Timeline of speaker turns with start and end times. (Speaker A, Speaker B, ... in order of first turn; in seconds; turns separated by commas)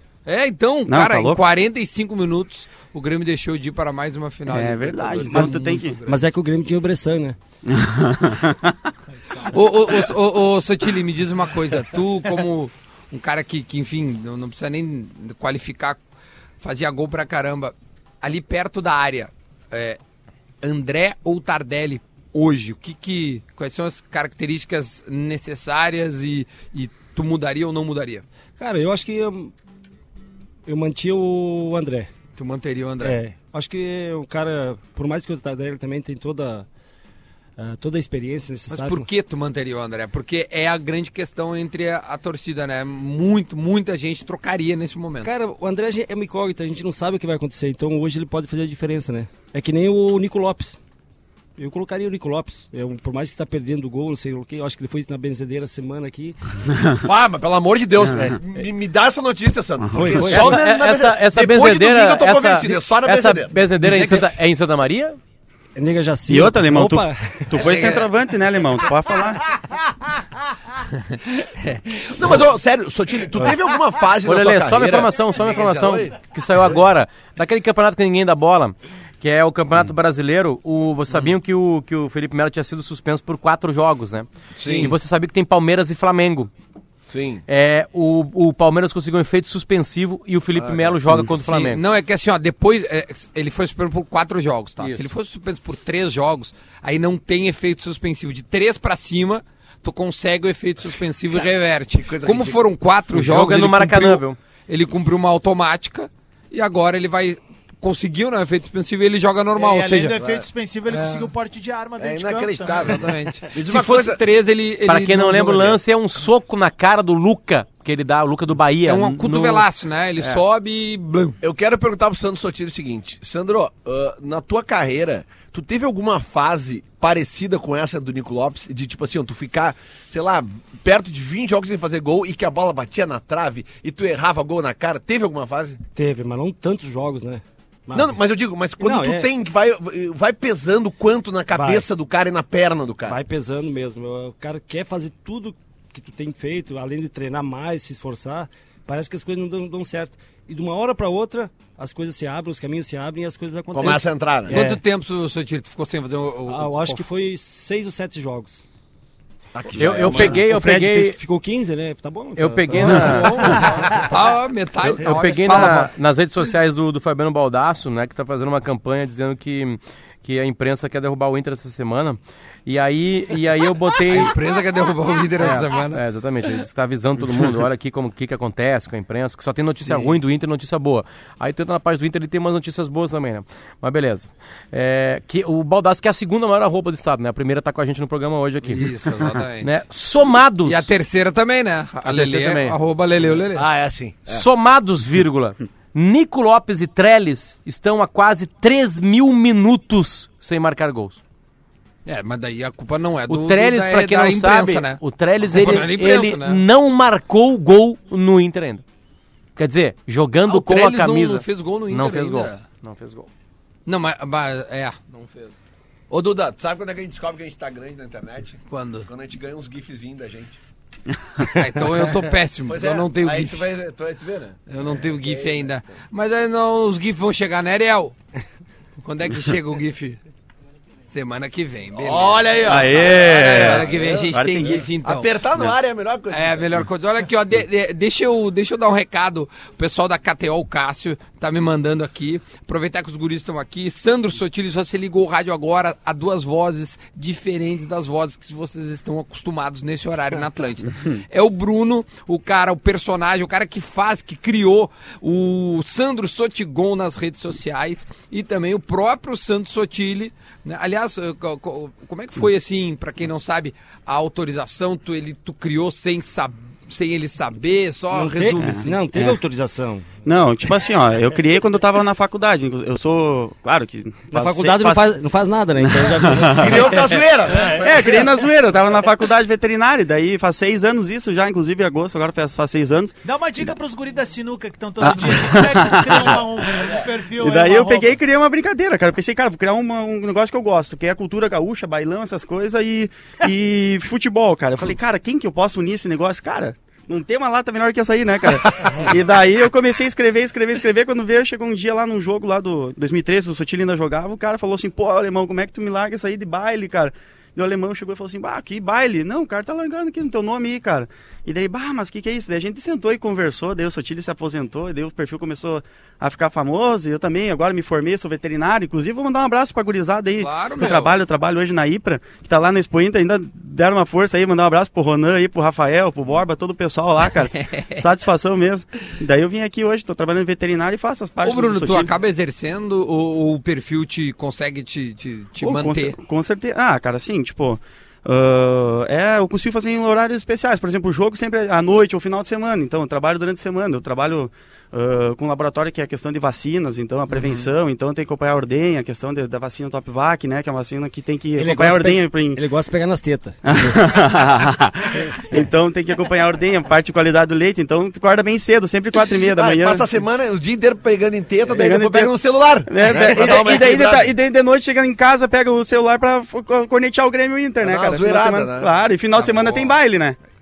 Speaker A: 0.3-6.2, Speaker B: 0.9-1.4, Speaker B: 4.5-6.0, Speaker C: 5.3-7.4, Speaker B: 7.7-8.9, Speaker A: 9.3-16.0, Speaker A: 16.6-20.0, Speaker A: 20.6-28.2, Speaker C: 28.6-29.5, Speaker C: 30.7-32.1, Speaker A: 32.4-33.2, Speaker C: 33.0-36.7, Speaker C: 37.6-39.1, Speaker A: 38.7-45.3, Speaker C: 45.2-50.8, Speaker C: 51.6-56.4, Speaker D: 57.0-63.6, Speaker C: 59.9-60.7, Speaker E: 60.3-65.2, Speaker A: 63.8-64.3, Speaker C: 65.8-67.7, Speaker B: 66.3-69.6, Speaker A: 67.5-68.1, Speaker A: 71.0-72.1, Speaker D: 72.1-76.2, Speaker E: 74.2-86.5, Speaker D: 84.6-84.9, Speaker A: 84.6-84.9, Speaker D: 87.1-87.5, Speaker E: 87.5-91.8, Speaker D: 90.6-91.2, Speaker A: 91.4-110.2, Speaker D: 94.8-95.1, Speaker D: 101.9-102.6, Speaker E: 103.1-104.4, Speaker F: 109.6-113.0, Speaker D: 110.2-110.5, Speaker A: 110.9-111.3, Speaker D: 112.0-114.2, Speaker A: 112.7-115.8, Speaker E: 114.9-119.7, Speaker A: 118.9-121.4, Speaker D: 121.4-135.8, Speaker C: 135.9-138.2, Speaker D: 137.9-143.2, Speaker C: 138.8-139.3, Speaker C: 141.5-141.9, Speaker C: 143.1-154.8, Speaker D: 153.7-154.6, Speaker A: 153.8-157.1, Speaker C: 156.5-158.6, Speaker D: 159.6-160.4, Speaker E: 159.8-161.2, Speaker C: 159.9-164.0, Speaker E: 162.4-163.7, Speaker A: 163.4-165.9, Speaker E: 164.8-174.3, Speaker A: 174.1-176.0, Speaker E: 175.4-190.9, Speaker A: 188.7-189.7, Speaker A: 190.6-193.7, Speaker E: 192.1-192.8, Speaker D: 193.6-194.4, Speaker E: 194.3-201.2, Speaker A: 202.1-205.0, Speaker E: 203.3-208.8, Speaker A: 205.5-206.6, Speaker E: 209.6-213.3, Speaker A: 210.5-212.7, Speaker A: 213.9-215.5, Speaker D: 216.1-220.6, Speaker A: 218.7-219.1, Speaker A: 221.4-223.7, Speaker D: 222.7-225.7, Speaker A: 224.7-228.2, Speaker A: 229.0-230.2, Speaker A: 231.1-235.3, Speaker D: 231.9-236.8, Speaker B: 232.6-234.8, Speaker A: 236.3-269.0, Speaker C: 268.1-270.1, Speaker B: 268.6-269.4, Speaker B: 270.2-275.1, Speaker C: 274.3-278.1, Speaker B: 275.8-283.1, Speaker D: 276.5-278.3, Speaker F: 283.2-288.1, Speaker B: 285.0-286.4, Speaker D: 286.8-287.1, Speaker B: 287.4-332.1, Speaker A: 320.4-321.2, Speaker A: 331.4-336.1, Speaker B: 335.6-352.6, Speaker C: 351.6-353.6, Speaker B: 353.7-360.1, Speaker D: 359.5-364.3, Speaker B: 361.7-370.4, Speaker D: 367.8-369.9